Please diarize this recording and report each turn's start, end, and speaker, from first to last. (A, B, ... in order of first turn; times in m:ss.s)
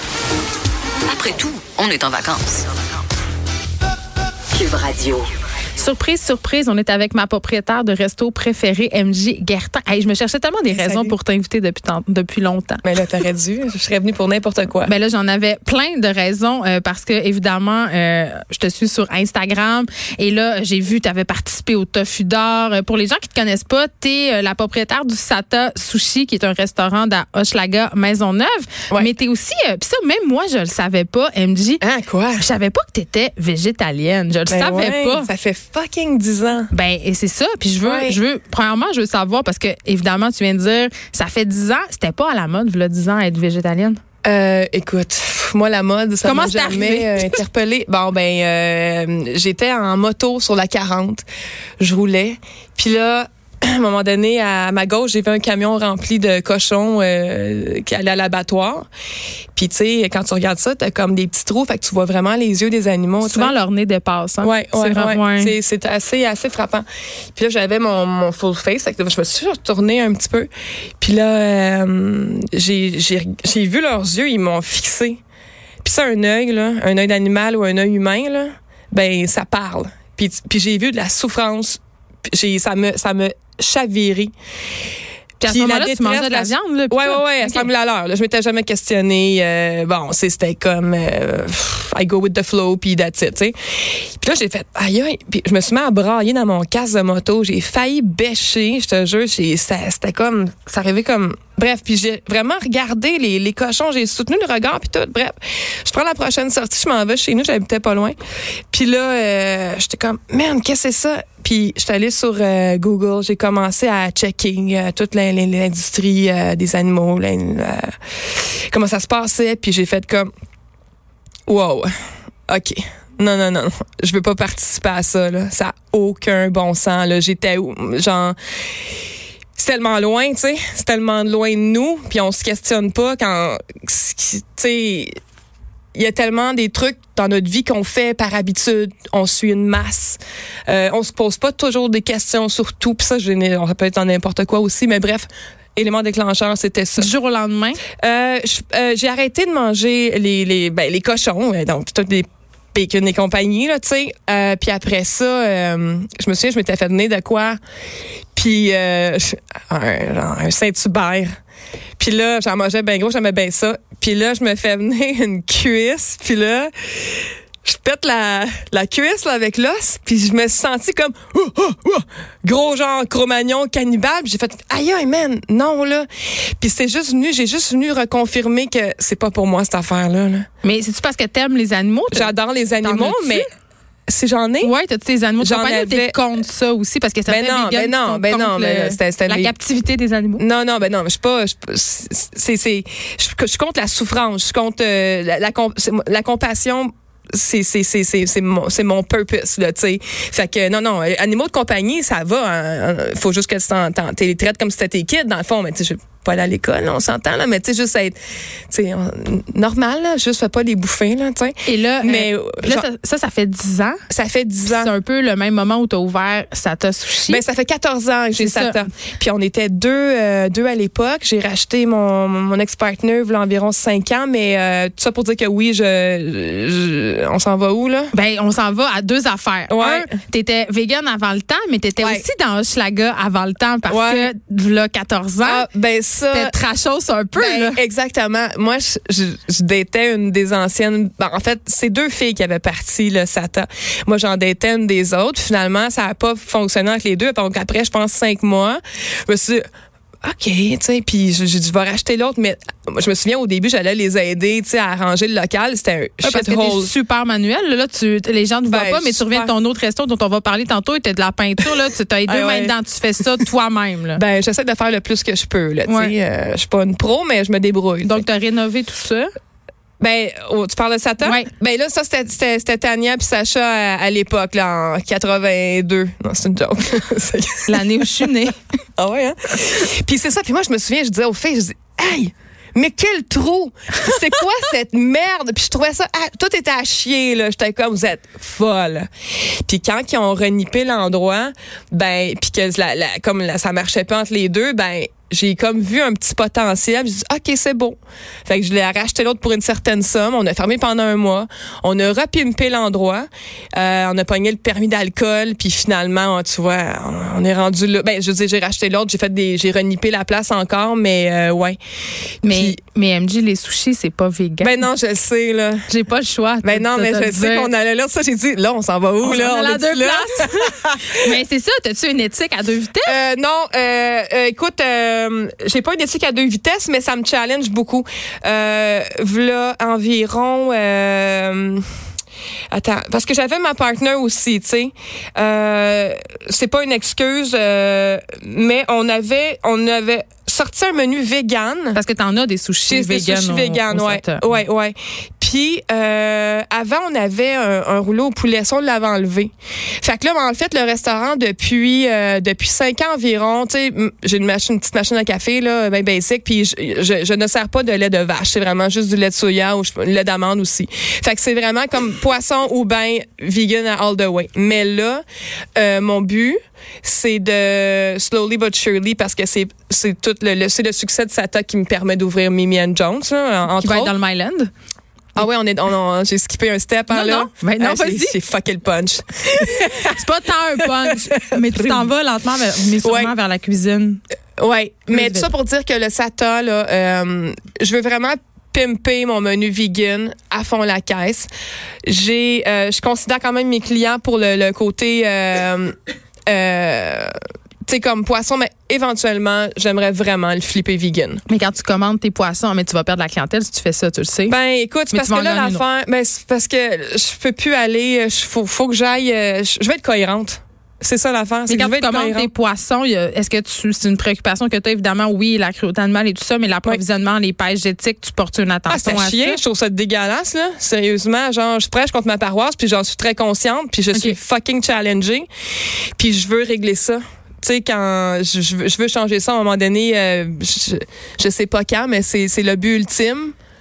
0:01.1-0:02.9 A
0:04.5-0:05.3 A
0:05.8-0:12.8 B
0:10.7-0:11.2 C
0:12.8-0:14.9 C
0:14.8-0:31.8 B
0:31.8-0:32.5 C
0:32.4-0:35.3 B
0:34.5-0:36.7 C
0:36.7-0:44.0 B
0:37.8-0:38.2 C
0:44.2-0:51.2 C
0:46.2-0:47.4 B
0:51.8-0:58.9 C
0:59.6-1:03.6 C
1:03.2-1:05.6 B
1:04.4-1:10.5 C
1:11.0-1:15.2 C
1:15.8-1:24.3 C
1:25.4-1:27.7 B
1:25.4-1:48.2 C
1:48.7-2:00.3 C
2:01.5-2:01.9 C
2:02.5-2:08.4 C
2:09.6-2:15.2 C
2:16.0-2:27.1 C
2:27.0-2:27.8 B
2:28.0-2:37.6 C
2:38.4-2:41.4 C
2:42.0-3:00.5 C
3:00.6-3:03.5 B
3:02.1-3:03.5 C
3:04.1-3:04.7 C
3:04.6-3:10.4 B
3:05.4-3:06.2 C
3:07.3-3:09.5 C
3:10.4-3:28.2 C
3:28.7-3:32.9 C
3:31.6-3:34.0 B
3:34.1-3:34.9 C
3:34.7-3:37.4 B
3:37.3-3:48.1 C
3:38.4-3:38.9 B
3:48.1-3:55.7 B
3:49.7-3:50.1 C
3:52.0-3:52.3 C
3:53.9-3:54.3 C
3:55.4-3:56.6 C
3:56.3-3:57.8 B
3:57.4-4:09.6 C
4:10.2-4:16.9 C
4:16.2-4:24.2 B
4:18.7-4:19.5 C
4:22.3-4:22.8 C
4:24.2-4:28.2 C
4:25.9-4:26.1 B
4:28.0-4:29.3 B
4:30.0-5:11.8 C
4:31.2-4:31.5 B
4:37.7-4:38.6 B
5:12.4-5:12.8 C
5:12.4-5:14.8 B
5:14.6-5:15.9 C
5:15.9-5:17.7 B
5:16.6-5:21.4 C
5:19.2-5:23.2 B
5:23.0-5:31.9 C
5:32.7-5:42.0 C
5:42.0-5:44.5 B
5:42.9-6:05.2 C
6:05.8-6:14.1 C
6:13.8-6:14.7 B
6:15.4-6:20.2 C
6:17.1-6:18.4 B
6:19.6-6:24.2 B
6:20.8-6:22.1 C
6:23.0-6:23.3 C
6:24.6-6:31.5 C
6:25.1-6:25.5 B
6:32.1-6:36.0 C
6:36.5-6:41.4 C
6:41.5-6:44.6 B
6:44.5-6:52.5 C
6:45.1-6:45.8 B
6:51.7-6:59.6 B
6:58.9-7:05.5 C
7:06.2-7:13.6 C